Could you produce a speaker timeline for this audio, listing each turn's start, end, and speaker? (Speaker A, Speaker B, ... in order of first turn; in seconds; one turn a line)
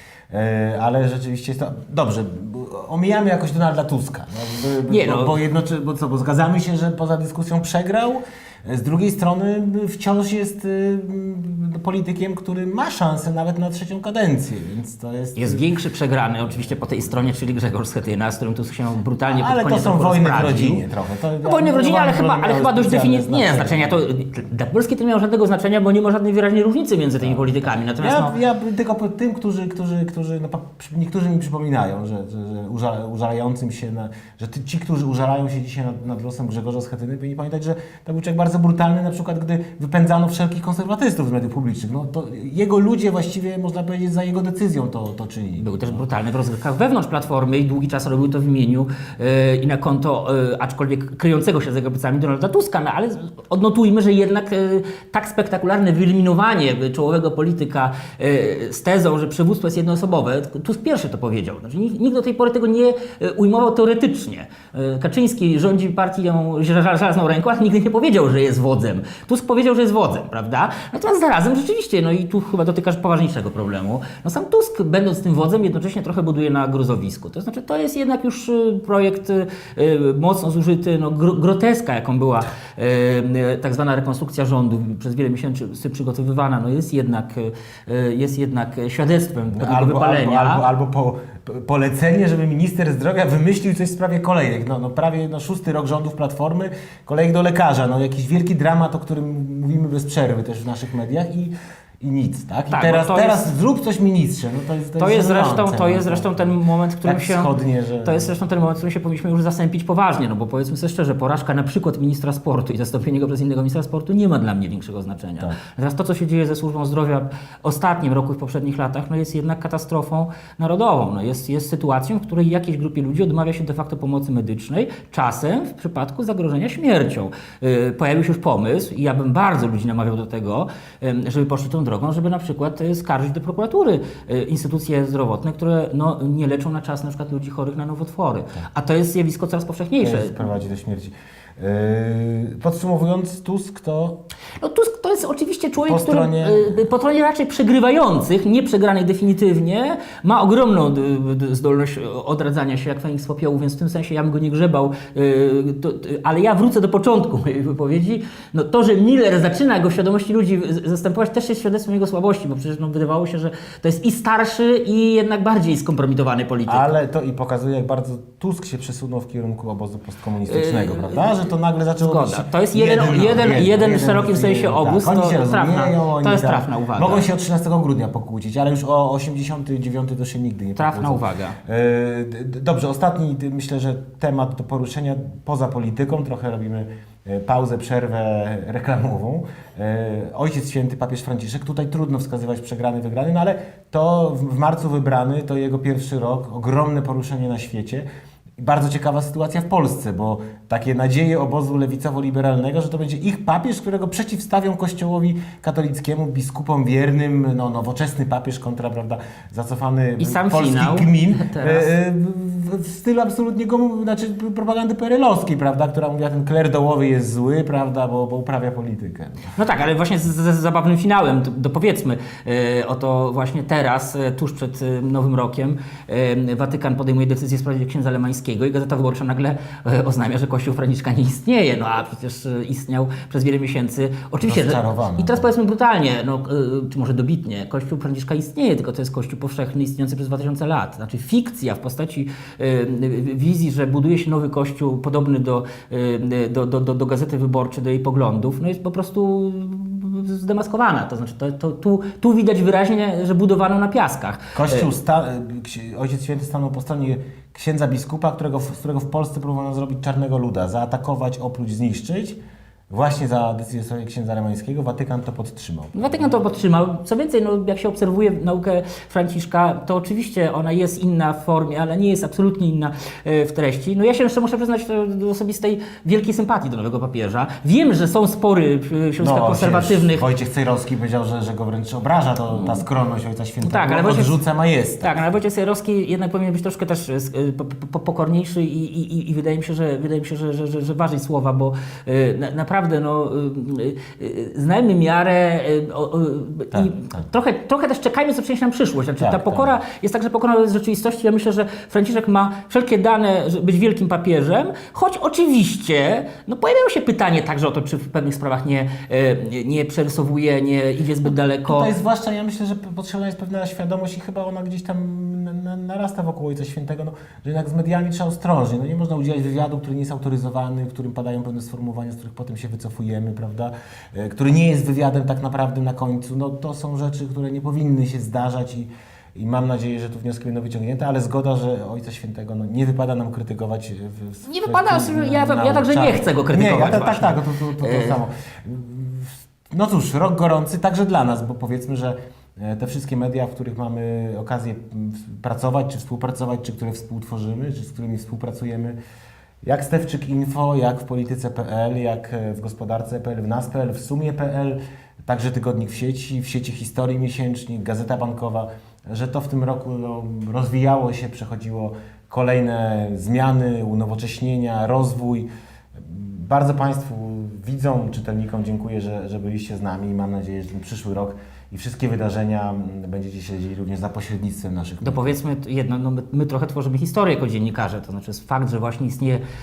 Speaker A: 0.3-15.6
Speaker B: 4.9-5.3
Speaker B: 15.3-20.8
Speaker A: 19.3-23.9
Speaker B: 21.4-28.3
Speaker A: 27.2-46.0
Speaker B: 45.6-90.6
Speaker A: 89.5-108.4
Speaker B: 102.7-103.5
Speaker B: 105.0-107.5
Speaker B: 108.0-140.4
Speaker A: 140.0-144.2
Speaker B: 144.6-166.9
Speaker A: 145.8-146.8
Speaker A: 166.7-198.1
Speaker B: 170.5-171.4
Speaker B: 172.0-177.3
Speaker B: 180.8-181.6
Speaker A: 198.6-219.5
Speaker B: 210.2-211.9
Speaker B: 219.6-254.9
Speaker A: 234.4-235.5
Speaker A: 254.6-262.4
Speaker A: 262.9-266.4
Speaker B: 265.9-280.2
Speaker A: 279.2-285.3
Speaker B: 282.5-282.8
Speaker B: 283.6-284.4
Speaker B: 285.0-311.9
Speaker A: 296.7-297.2
Speaker A: 299.2-299.7
Speaker A: 311.7-348.9
Speaker B: 334.4-338.2
Speaker A: 349.6-375.4
Speaker B: 375.0-379.4